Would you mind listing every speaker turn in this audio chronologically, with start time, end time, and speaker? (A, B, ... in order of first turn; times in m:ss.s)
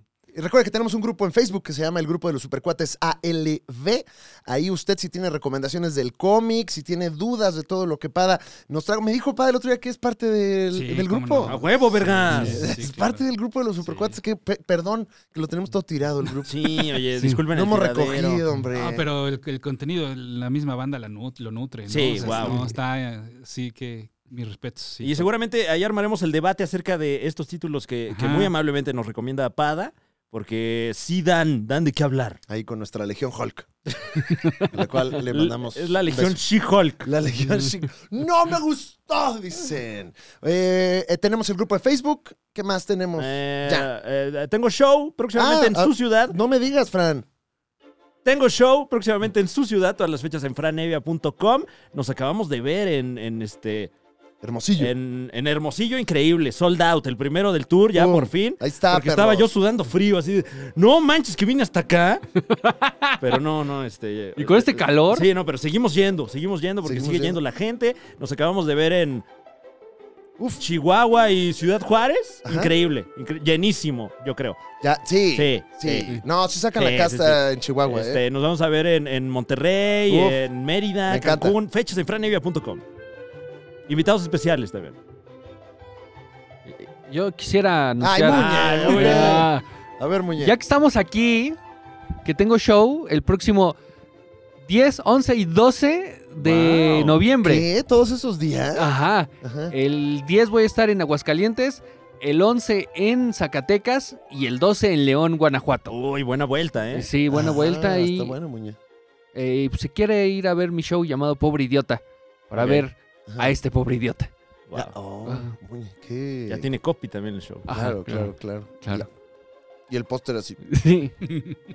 0:00.3-0:11.5 A
0:10.7-0:13.2 B
0:11.4-0:12.7 C
0:12.3-0:19.0 A
0:16.5-0:18.4 C
0:18.7-0:25.3 B
0:21.9-0:22.7 C
0:22.2-0:22.7 A
0:25.0-0:32.4 C
0:28.1-0:28.5 B
0:32.5-0:33.7 A
0:34.7-0:36.4 A
0:35.2-0:37.1 C
0:37.0-0:43.9 A
0:43.2-0:46.4 C
0:45.3-0:47.2 A
0:48.2-0:53.9 C
0:54.4-0:54.9 A
0:54.8-1:02.2 C
0:57.9-0:59.5 A
1:02.4-1:03.2 D
1:03.2-1:09.2 C
1:04.4-1:05.3 D
1:06.8-1:07.4 A
1:10.6-1:14.6 C
1:12.4-1:12.7 A
1:14.8-1:18.2 A
1:15.3-1:16.2 C
1:16.8-1:22.8 C
1:20.1-1:20.4 A
1:21.0-1:21.6 A
1:23.9-1:25.0 C
1:26.7-1:29.6 D
1:28.0-1:30.6 A
1:28.3-1:29.5 C
1:30.4-1:31.6 D
1:32.2-1:33.8 D
1:34.6-1:37.7 D
1:36.4-1:37.2 C
1:37.4-1:39.7 A
1:38.7-1:46.0 D
1:45.9-1:47.1 C
1:46.9-1:48.4 D
1:47.3-1:48.8 A
1:49.3-1:54.3 D
1:52.5-1:53.5 A
1:52.6-1:52.8 C
1:54.7-1:56.6 A
1:55.2-1:55.6 D
1:56.5-1:57.7 C
1:57.7-1:59.1 D
1:57.7-1:59.1 A
1:59.9-2:00.6 A
2:00.6-2:01.2 D
2:01.3-2:01.6 B